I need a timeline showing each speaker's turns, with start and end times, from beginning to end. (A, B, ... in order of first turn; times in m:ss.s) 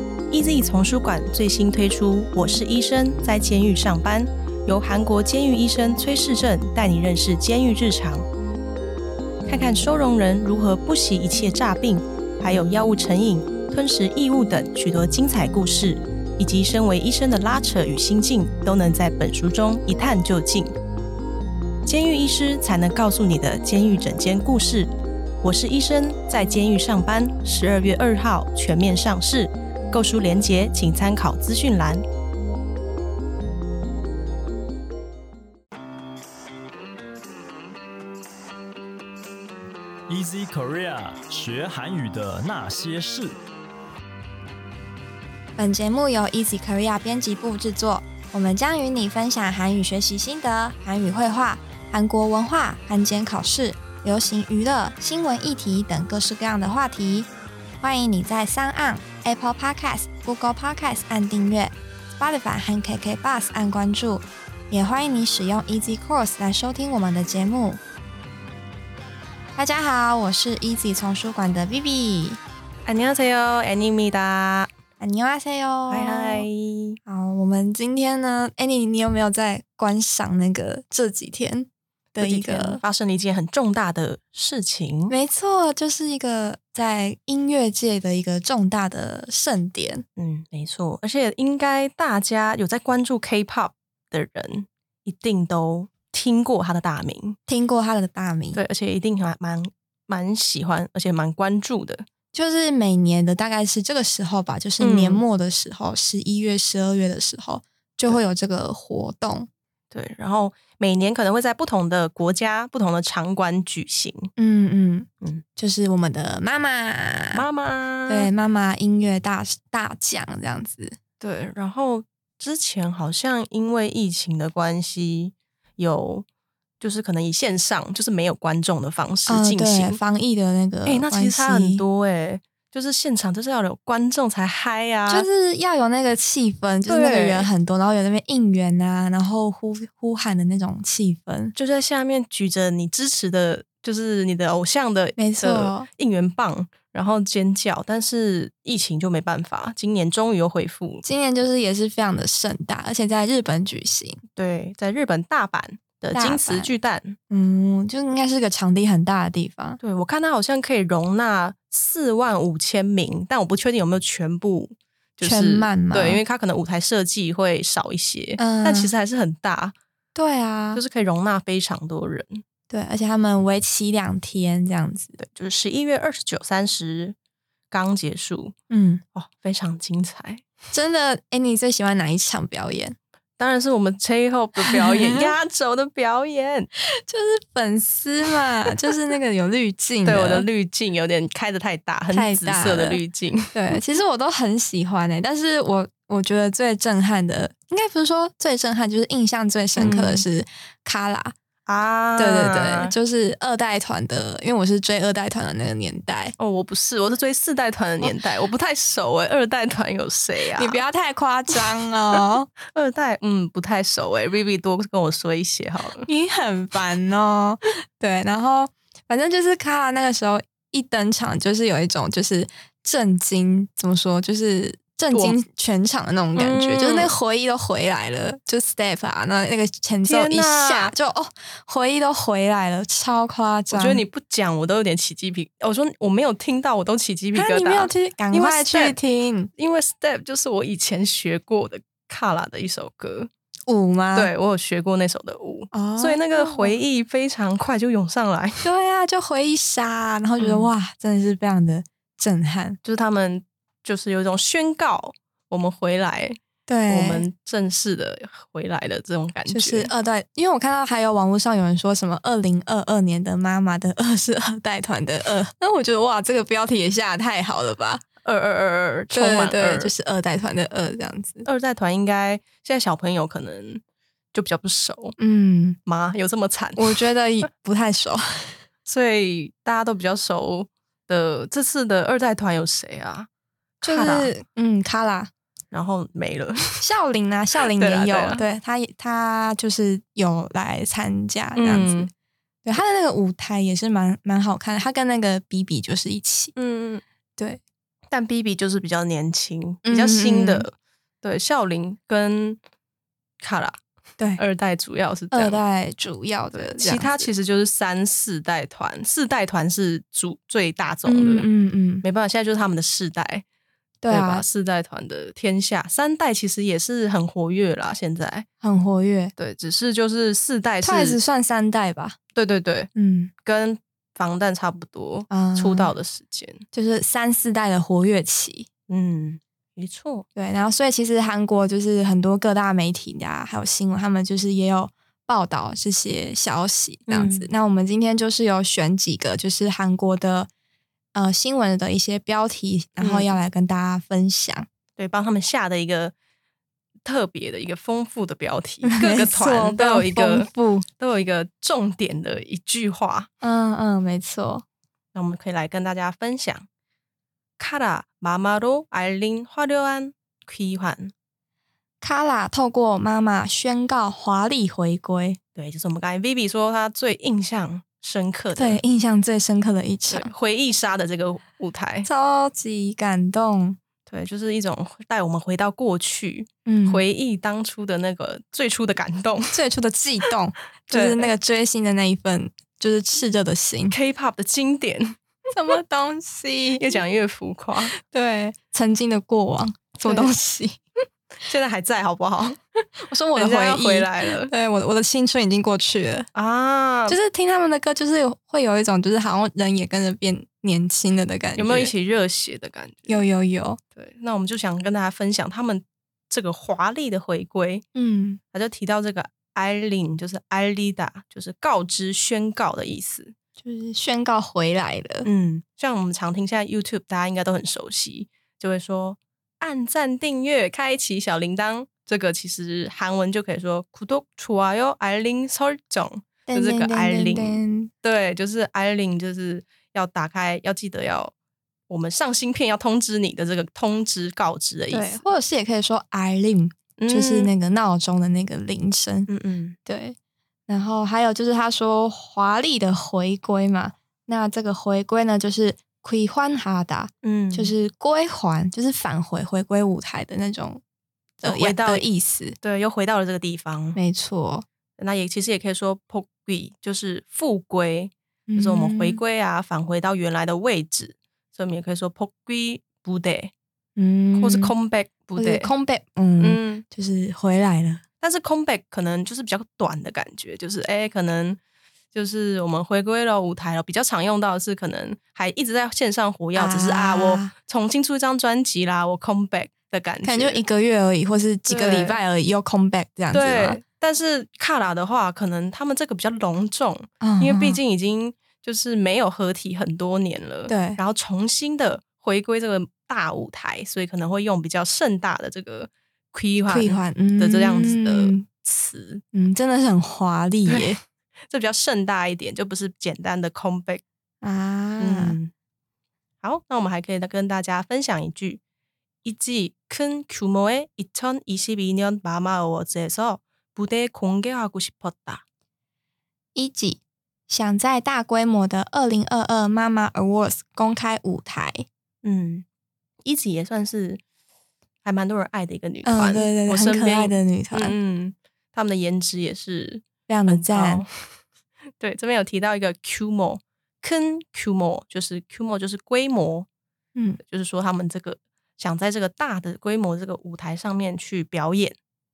0:00.3-0:08.2 A
0:09.5-0:20.7 A
0:21.8-0:32.0 A
0:40.1-0:43.4 B
0:45.6-0:57.3 C
0:57.8-1:07.8 C
1:09.5-1:12.4 C
1:12.8-1:14.7 A
1:15.0-1:16.4 C
1:15.9-1:17.0 A
1:17.0-1:22.8 C
1:22.2-1:25.1 A
1:25.1-1:30.0 C
1:30.2-1:37.4 A
1:37.5-1:38.6 C
1:38.5-1:42.1 A
1:42.3-1:49.5 C
1:44.8-1:45.2 A
1:49.9-1:54.3 A
1:54.4-1:57.4 C
1:57.3-1:58.3 A
1:58.1-2:01.0 C
2:01.2-2:06.2 A
2:06.8-2:10.0 A
2:09.3-2:11.8 C
2:10.8-2:15.3 A
2:15.1-2:21.5 C
2:16.9-2:17.5 A
2:21.5-2:31.0 A
2:25.2-2:25.9 C
2:31.0-2:34.2 C
2:34.4-2:37.2 A
2:36.1-2:36.7 C
2:37.3-2:39.8 C
2:39.8-2:49.7 A
2:45.2-2:46.2 C
2:48.4-2:48.9 C
2:50.1-2:50.8 C
2:50.7-2:52.4 A
2:52.7-2:55.1 C
2:55.2-2:57.2 A
2:57.7-2:58.5 A
2:58.7-2:59.0 C
2:59.1-3:00.4 A
3:00.7-3:03.0 C
3:03.4-3:06.7 A
3:04.6-3:05.3 C
3:07.0-3:10.4 C
3:10.0-3:13.7 A
3:12.1-3:13.0 C
3:13.5-3:21.3 C
3:19.8-3:20.2 A
3:21.6-3:22.9 A
3:22.2-3:26.3 C
3:26.4-3:30.8 A
3:30.6-3:32.5 C
3:32.7-3:36.1 A
3:36.0-3:54.0 C
3:45.1-3:45.4 A
3:46.4-3:47.1 A
3:50.0-3:50.9 A
3:53.7-3:59.0 A
3:57.3-3:59.5 C
3:59.6-4:03.3 A
4:03.7-4:04.3 C
4:04.1-4:08.7 A
4:05.7-4:06.8 C
4:08.6-4:12.8 C
4:10.4-4:10.7 A
4:12.8-4:19.9 A
4:16.7-4:17.2 C
4:19.5-4:28.0 C
4:28.2-4:29.9 A
4:29.1-4:31.4 C
4:31.4-4:33.8 A
4:34.3-4:35.2 A
4:35.2-4:35.8 C
4:35.8-4:37.0 A
4:36.8-4:38.6 C
4:38.8-4:43.3 A
4:43.8-4:44.3 A
4:43.8-4:45.3 C
4:45.7-4:46.8 A
4:46.8-4:52.1 C
4:47.7-4:48.4 A
4:51.6-4:52.1 A
4:52.6-4:56.5 C
4:56.5-4:57.0 A
4:58.1-5:02.6 A
4:59.8-5:00.6 C
5:03.4-5:03.8 A
5:04.4-5:05.6 A
5:05.3-5:07.3 C
5:06.5-5:11.5 A
5:11.0-5:12.0 C
5:12.0-5:13.4 A
5:14.0-5:14.4 C
5:14.1-5:18.4 A
5:18.6-5:19.3 C
5:19.4-5:21.2 A
5:20.8-5:22.2 C
5:22.3-5:22.9 A
5:22.9-5:23.3 C
5:23.4-5:26.6 A
5:25.3-5:25.9 C
5:26.7-5:28.7 C
5:28.9-5:30.2 A
5:30.4-5:40.5 C
5:37.1-5:37.5 A
5:41.1-5:44.7 C
5:43.0-5:43.3 A
5:45.0-5:46.1 A
5:47.0-5:53.3 A
5:48.8-5:50.8 C
5:53.4-5:54.6 C
5:55.1-5:56.7 A
5:57.6-6:01.1 A
6:02.0-6:05.4 C
6:05.6-6:08.8 A
6:08.6-6:10.3 C
6:10.1-6:12.1 A
6:12.0-6:13.8 C
6:14.1-6:19.6 A
6:16.6-6:17.0 C
6:19.5-6:24.0 C
6:20.9-6:21.3 A
6:23.9-6:25.2 A
6:25.5-6:27.0 C
6:26.8-6:28.0 A
6:27.9-6:30.8 C
6:30.0-6:30.3 A
6:31.4-6:34.5 A
6:33.1-6:36.3 C
6:36.3-6:37.2 A
6:37.1-6:41.9 C
6:41.6-6:43.2 A
6:43.1-6:43.8 C
6:43.9-6:47.8 A
6:47.9-6:48.4 C
6:48.5-6:53.3 A
6:53.6-6:55.3 C
6:55.2-7:11.3 A
7:06.5-7:07.9 C
7:11.9-7:15.2 A
7:14.9-7:19.3 C
7:17.0-7:17.5 A
7:19.3-7:19.8 A
7:19.8-7:20.2 C
7:20.7-7:30.8 C
7:27.2-7:27.7 A
7:31.4-7:32.6 C
7:31.4-7:32.0 A
7:32.6-7:34.0 A
7:33.9-7:34.6 C
7:35.0-7:43.5 A
7:38.5-7:39.2 C
7:44.0-7:44.7 C
7:44.3-7:45.7 A
7:45.4-7:48.0 C
7:46.4-7:46.8 A
7:48.2-7:51.6 A
7:52.1-8:00.6 A
7:56.5-7:57.5 C
8:00.2-8:03.8 C
8:01.7-8:02.2 A
8:03.3-8:19.2 A
8:07.2-8:07.8 C
8:10.7-8:11.0 C
8:16.7-8:18.4 C
8:19.3-8:21.0 C
8:20.6-8:21.0 A
8:21.5-8:24.0 A
8:24.4-8:25.4 C
8:25.0-8:25.5 A
8:26.4-8:28.6 A
8:29.2-8:35.4 A
8:36.5-8:41.8 C
8:42.2-8:42.6 A
8:43.2-8:44.2 A
8:45.0-8:51.1 A
8:46.0-8:48.0 C
8:50.3-8:51.0 C
8:52.0-8:56.7 A
8:57.4-9:02.0 A